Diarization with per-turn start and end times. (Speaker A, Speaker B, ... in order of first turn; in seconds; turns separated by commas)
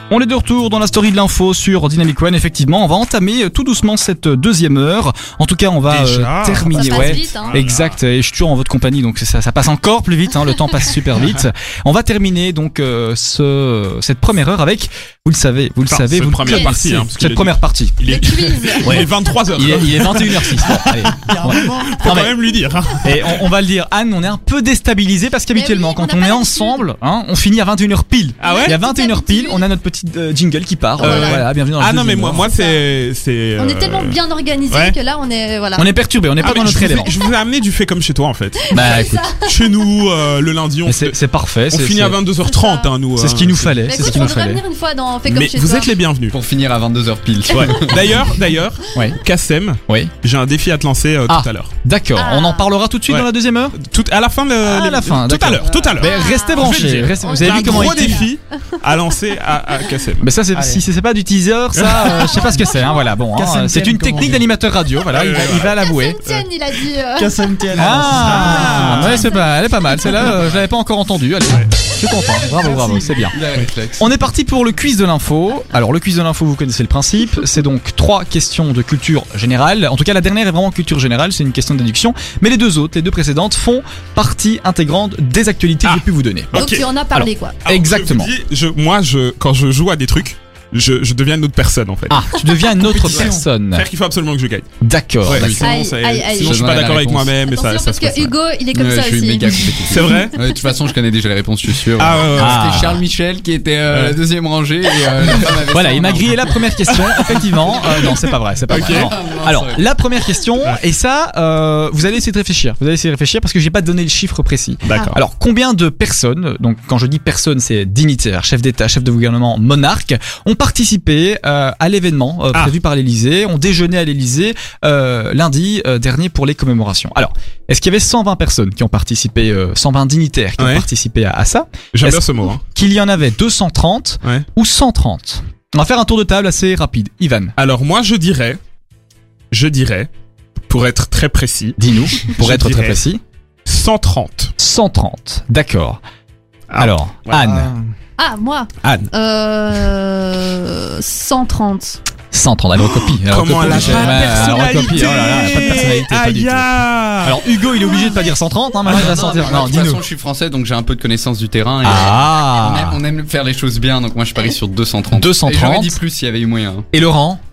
Speaker A: 0.1-18.0, Speaker B: 5.9-7.9, Speaker C: 6.7-7.5, Speaker B: 15.9-23.4, Speaker C: 16.4-16.7, Speaker C: 18.0-19.4, Speaker A: 18.8-22.3, Speaker D: 21.2-22.1, Speaker A: 23.0-32.5, Speaker C: 25.5-26.8, Speaker B: 28.4-28.8, Speaker C: 28.4-29.6, Speaker C: 31.0-31.4, Speaker B: 31.0-34.2, Speaker C: 32.5-32.8, Speaker C: 33.6-35.9, Speaker B: 34.7-35.0, Speaker A: 35.8-37.1, Speaker B: 36.4-38.8, Speaker A: 38.7-39.3, Speaker C: 38.7-39.8, Speaker B: 39.4-41.1, Speaker A: 40.9-42.2, Speaker B: 41.7-44.3, Speaker C: 42.4-42.9, Speaker A: 43.1-44.6, Speaker C: 43.9-45.9, Speaker B: 45.3-46.4, Speaker E: 46.3-48.1, Speaker B: 47.5-51.7, Speaker A: 51.3-53.7, Speaker C: 52.1-52.7, Speaker B: 53.1-60.3, Speaker A: 54.6-58.2, Speaker C: 55.6-58.7, Speaker A: 60.2-66.2, Speaker D: 60.5-60.8, Speaker B: 61.7-62.3, Speaker C: 62.1-63.0, Speaker D: 63.3-64.5, Speaker B: 65.1-66.5, Speaker C: 65.5-67.4, Speaker D: 67.2-69.0, Speaker A: 67.7-73.3, Speaker B: 67.9-69.3, Speaker C: 68.3-70.1, Speaker B: 70.2-70.6, Speaker E: 72.6-74.1, Speaker A: 74.0-86.5, Speaker B: 85.8-86.9, Speaker C: 86.5-87.6, Speaker A: 87.1-88.3, Speaker B: 87.6-92.3, Speaker A: 92.1-93.9, Speaker D: 92.7-93.5, Speaker B: 93.1-94.7, Speaker A: 94.8-95.6, Speaker B: 95.2-98.3, Speaker E: 95.3-95.7, Speaker C: 95.6-96.6, Speaker E: 96.4-97.3, Speaker C: 97.4-100.4, Speaker E: 98.7-106.6, Speaker B: 99.9-100.4, Speaker B: 102.0-102.9, Speaker A: 102.3-103.0, Speaker B: 103.9-104.2, Speaker B: 105.2-105.5, Speaker A: 105.7-137.5, Speaker B: 107.0-109.1, Speaker E: 108.7-109.8, Speaker B: 114.8-115.2, Speaker B: 130.6-130.9, Speaker B: 131.9-132.6, Speaker B: 137.6-138.6, Speaker B: 139.5-140.1, Speaker B: 140.7-143.1, Speaker A: 141.8-143.2, Speaker B: 143.6-144.5, Speaker A: 144.6-146.0, Speaker B: 146.7-147.5, Speaker A: 146.8-147.7, Speaker D: 147.3-147.9, Speaker C: 148.2-152.0, Speaker B: 148.8-149.1, Speaker A: 152.3-160.0, Speaker B: 152.8-157.4, Speaker E: 153.6-154.3, Speaker C: 157.8-158.3, Speaker E: 158.8-166.9, Speaker A: 161.8-163.0, Speaker A: 165.1-166.0, Speaker A: 166.9-167.4